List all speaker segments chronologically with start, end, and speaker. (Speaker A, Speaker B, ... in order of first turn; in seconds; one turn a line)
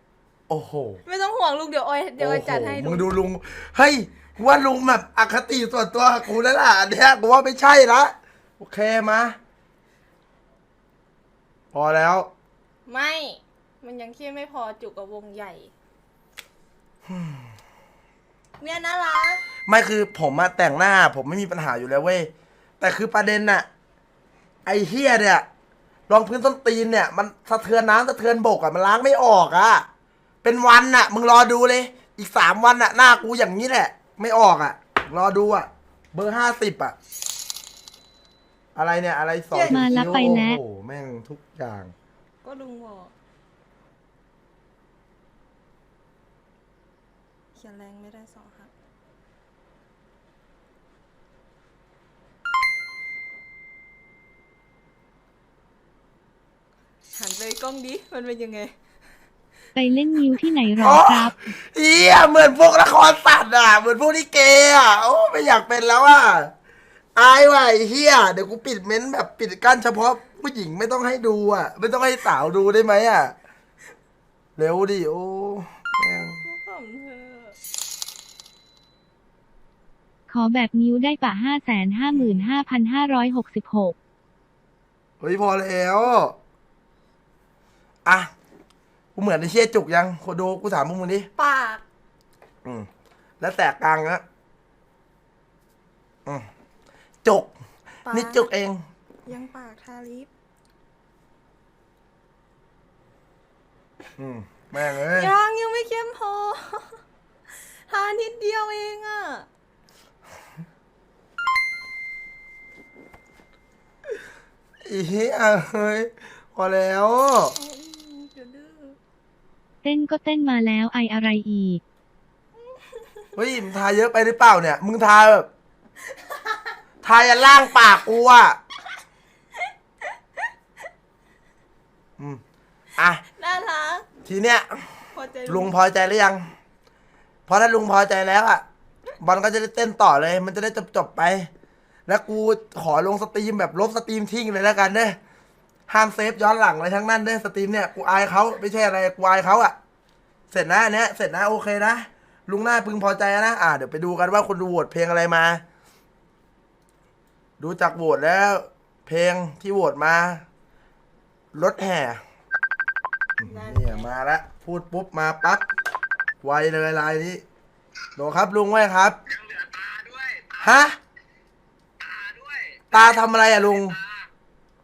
Speaker A: 0.5-1.0
Speaker B: 1.0-3.1
Speaker A: 2.2-9.4
Speaker A: 11.7-12.3
Speaker B: 12.8-15.7
Speaker A: 17.1-17.5
Speaker B: 18.6-19.4
Speaker A: 19.6-23.6
Speaker A: 24.6-25.4
Speaker A: 26.1-29.9
Speaker A: 30.4-37.0
Speaker A: 38.7-41.9
Speaker B: 39.5-40.0
Speaker C: 39.7-40.6
Speaker B: 42.4-43.1
Speaker B: 47.5-48.7
Speaker B: 57.1-58.7
Speaker C: 59.7-61.3
Speaker A: 60.8-66.5
Speaker A: 67.1-73.3
Speaker A: 74.6-76.4
Speaker B: 76.0-77.6
Speaker C: 80.3-83.9
Speaker A: 85.2-86.3
Speaker A: 88.0-88.3
Speaker A: 89.1-91.3
Speaker B: 91.4-91.8
Speaker A: 93.4-94.2
Speaker A: 97.2-97.5
Speaker B: 98.0-98.5
Speaker A: 98.1-98.8
Speaker B: 99.2-100.3
Speaker A: 104.2-105.3
Speaker B: 105.1-107.0
Speaker B: 107.8-109.5
Speaker A: 114.8-117.5
Speaker B: 117.5-119.0
Speaker C: 119.8-121.8
Speaker B: 122.7-123.3
Speaker A: 123.3-125.5
Speaker A: 127.0-128.6
Speaker A: 133.0-133.2
Speaker B: 133.3-134.1
Speaker A: 134.2-134.9
Speaker B: 135.1-135.7
Speaker A: 135.5-136.4
Speaker A: 137.5-138.6
Speaker A: 139.2-141.5
Speaker A: 142.1-145.2
Speaker A: 145.9-149.7
Speaker A: 150.5-155.6
Speaker A: 157.6-160.4
Speaker A: 161.5-162.2
Speaker A: 163.4-165.7
Speaker B: 163.4-164.1
Speaker A: 166.4-167.4
Speaker A: 168.2-169.2
Speaker D: 169.2-170.8
Speaker A: 170.6-171.0
Speaker D: 172.0-174.3
Speaker A: 172.9-174.0